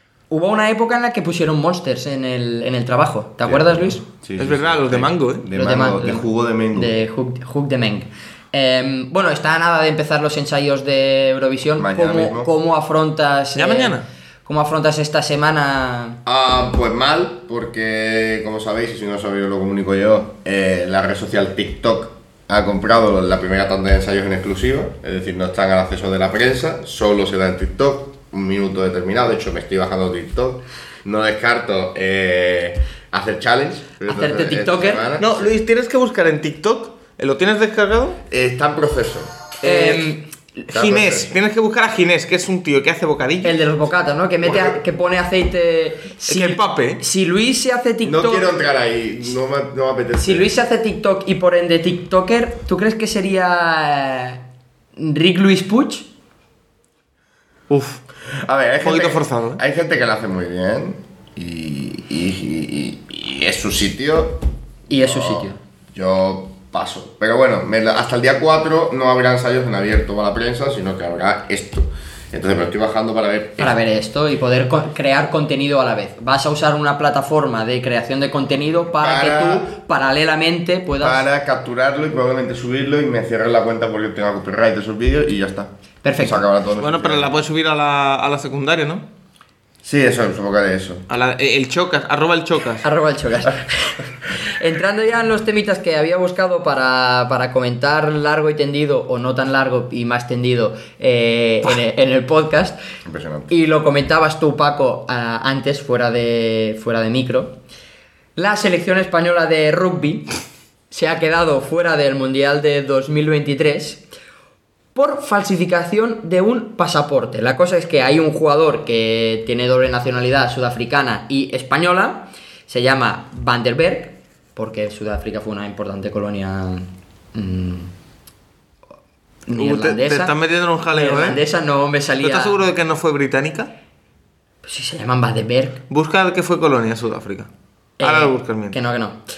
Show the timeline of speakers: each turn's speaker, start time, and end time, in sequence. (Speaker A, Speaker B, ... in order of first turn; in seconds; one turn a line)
Speaker A: 0.3-4.0
Speaker B: 3.4-6.9
Speaker C: 4.4-5.5
Speaker A: 5.5-16.2
Speaker B: 11.8-12.5
Speaker C: 13.5-14.0
Speaker B: 16.2-35.3
Speaker A: 34.1-35.0
Speaker C: 35.2-38.2
Speaker B: 38.3-39.4
Speaker A: 39.6-40.3
Speaker C: 39.6-40.0
Speaker C: 40.7-43.6
Speaker B: 40.7-41.4
Speaker A: 43.4-48.5
Speaker B: 44.4-44.7
Speaker C: 46.3-47.0
Speaker B: 48.0-50.5
Speaker A: 50.2-54.4
Speaker A: 55.0-56.1
Speaker C: 57.7-58.0
Speaker B: 58.3-64.4
Speaker C: 58.8-59.6
Speaker A: 64.9-65.6
Speaker B: 65.0-73.7
Speaker A: 73.6-81.2
Speaker B: 78.9-79.7
Speaker B: 81.0-87.3
Speaker A: 86.0-86.4
Speaker C: 86.8-89.1
Speaker B: 89.8-91.0
Speaker C: 91.1-92.8
Speaker A: 92.8-102.8
Speaker B: 103.0-103.5
Speaker A: 103.5-107.6
Speaker A: 108.3-110.3
Speaker A: 110.9-114.0
Speaker A: 114.9-127.9
Speaker A: 129.5-130.3
Speaker C: 129.5-131.4
Speaker A: 130.9-132.6
Speaker C: 132.2-133.7
Speaker A: 134.6-135.8
Speaker C: 135.9-137.5
Speaker A: 138.0-139.2
Speaker C: 138.0-138.8